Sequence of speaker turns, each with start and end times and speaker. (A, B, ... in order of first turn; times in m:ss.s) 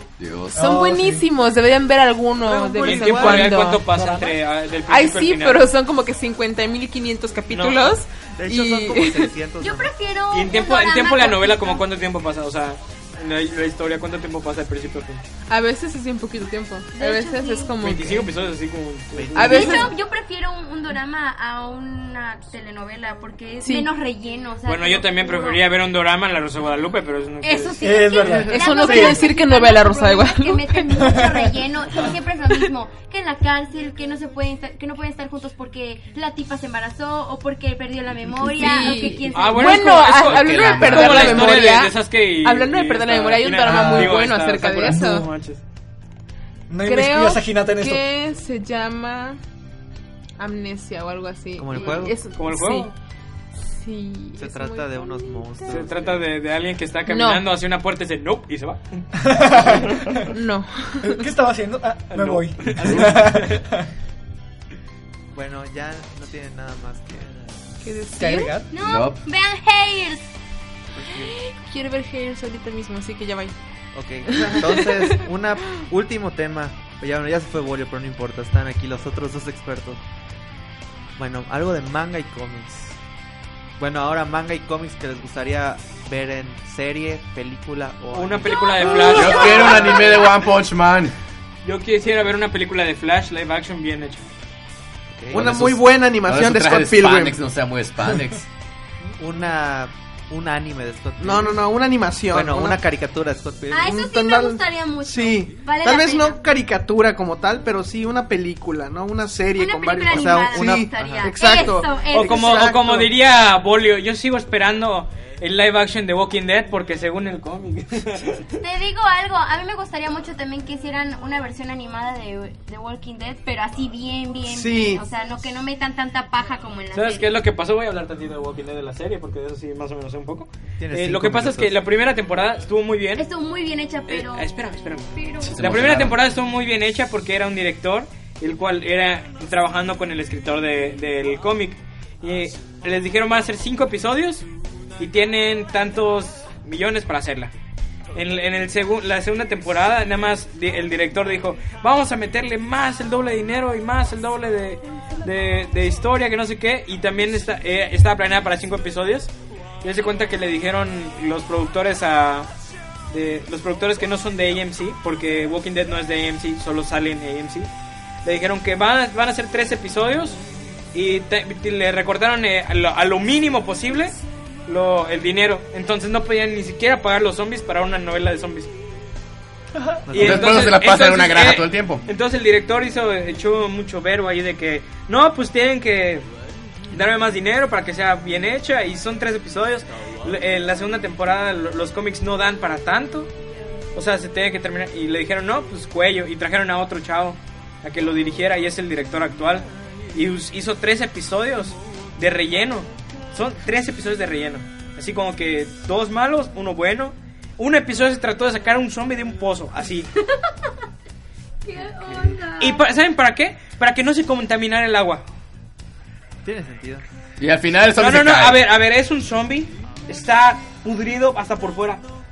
0:00.2-0:00.6 A
0:00.6-0:01.2 B
0:00.6-0:03.9 C
0:02.4-0:03.6 D
0:02.8-0:05.7 E
0:03.9-0:04.3 B
0:04.9-0:09.3 C
0:07.5-0:08.0 E
0:08.4-0:09.9 D
0:09.6-0:11.9 F
0:10.3-0:15.2 E
0:15.5-0:18.3 C
0:16.9-0:17.8 F
0:17.8-0:19.9 E
0:19.1-0:19.9 D
0:19.4-0:19.9 C
0:19.4-0:25.6 F
0:23.6-0:23.9 C
0:24.7-0:27.8 E
0:27.4-0:39.8 F
0:27.8-0:29.2 B
0:28.3-0:31.2 C
0:31.0-0:32.0 B
0:38.6-0:45.3 C
0:39.3-0:45.6 E
0:40.2-0:41.6 A
0:43.7-0:44.2 B
0:44.9-0:45.3 B
0:46.7-0:48.1 B
0:46.8-0:49.4 C
0:50.4-0:52.9 C
0:51.6-0:52.2 D
0:51.8-0:52.9 E
0:53.6-0:55.8 C
0:54.4-0:56.2 D
0:55.7-0:59.0 E
0:57.1-0:57.4 C
0:59.2-1:00.3 B
0:59.6-1:00.1 E
1:00.3-1:01.2 C
1:01.0-1:03.8 B
1:02.1-1:03.6 E
1:05.3-1:07.5 D
1:07.8-1:08.6 C
1:08.2-1:08.8 B
1:08.7-1:10.3 F
1:08.8-1:09.2 A
1:11.0-1:11.3 D
1:11.2-1:13.6 C
1:13.9-1:20.0 D
1:14.3-1:15.2 C
1:21.2-1:23.0 D
1:23.8-1:30.1 D
1:28.1-1:30.1 E
1:28.6-1:29.6 F
1:29.1-1:31.1 A
1:31.6-1:34.3 E
1:35.1-1:35.5 D
1:35.3-1:38.4 A
1:35.3-1:37.4 G
1:39.2-1:41.7 D
1:41.2-1:42.8 G
1:42.3-1:44.0 D
1:43.7-1:46.4 F
1:43.9-1:53.1 G
1:49.6-1:52.8 F
1:50.1-1:51.4 D
1:52.1-1:58.5 E
1:58.6-2:07.3 F
2:04.5-2:05.0 G
2:06.9-2:13.3 E
2:10.8-2:11.8 D
2:13.2-2:14.5 F
2:14.1-2:24.5 E
2:15.1-2:15.6 F
2:15.4-2:16.2 A
2:25.0-2:27.5 E
2:28.1-2:42.5 E
2:43.1-2:47.7 E
2:48.2-2:50.4 E
2:50.9-2:58.7 E
3:00.1-3:00.6 D
3:00.1-3:06.3 E
3:00.2-3:02.0 A
3:06.9-3:13.3 E
3:14.0-3:30.1 E
3:31.6-3:32.9 F
3:31.8-3:32.4 D
3:32.6-3:35.2 E
3:36.4-3:37.0 D
3:37.4-3:38.6 A
3:38.0-3:42.0 E